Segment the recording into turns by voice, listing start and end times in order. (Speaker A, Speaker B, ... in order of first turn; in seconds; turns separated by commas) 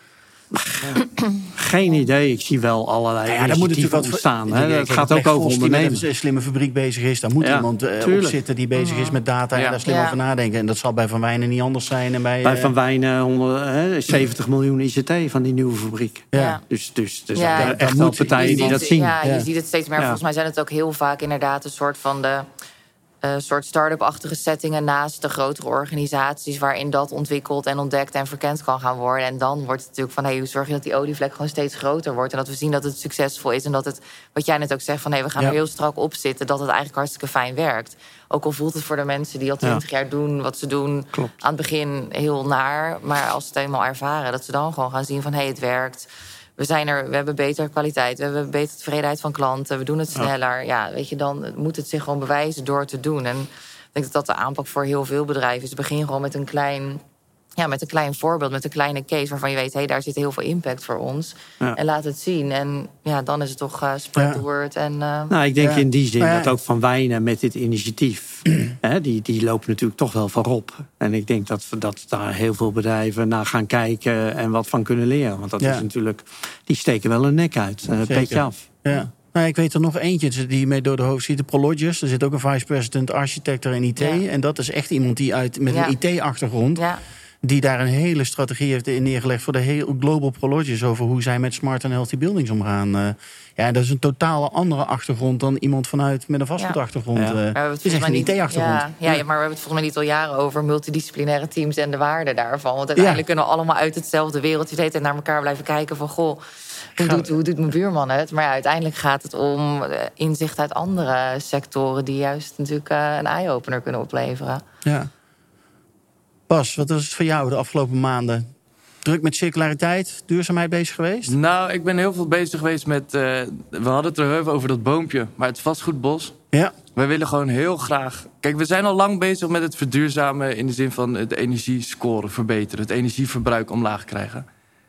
Speaker A: 0.5-6.0, Speaker B: 3.2-12.7, Speaker A: 7.4-8.3, Speaker C: 8.8-9.2, Speaker D: 9.5-9.8, Speaker C: 9.8-10.2, Speaker A: 12.4-19.2, Speaker B: 16.3-16.6, Speaker C: 16.3-16.6, Speaker C: 17.3-17.8, Speaker B: 17.5-19.4, Speaker C: 18.3-22.5, Speaker C: 23.2-57.0, Speaker C: 57.6-65.3, Speaker B: 64.2-64.4, Speaker A: 65.3-78.6, Speaker B: 65.6-66.5, Speaker B: 75.6-75.9, Speaker B: 78.0-86.8, Speaker C: 85.7-86.0, Speaker C: 86.8-87.0, Speaker B: 87.4-99.2, Speaker A: 97.1-97.4, Speaker C: 97.5-106.4, Speaker B: 103.0-103.2, Speaker C: 106.9-114.6, Speaker B: 107.0-107.3, Speaker B: 116.5-118.5, Speaker B: 119.0-121.3, Speaker D: 121.3-126.3, Speaker D: 126.9-134.4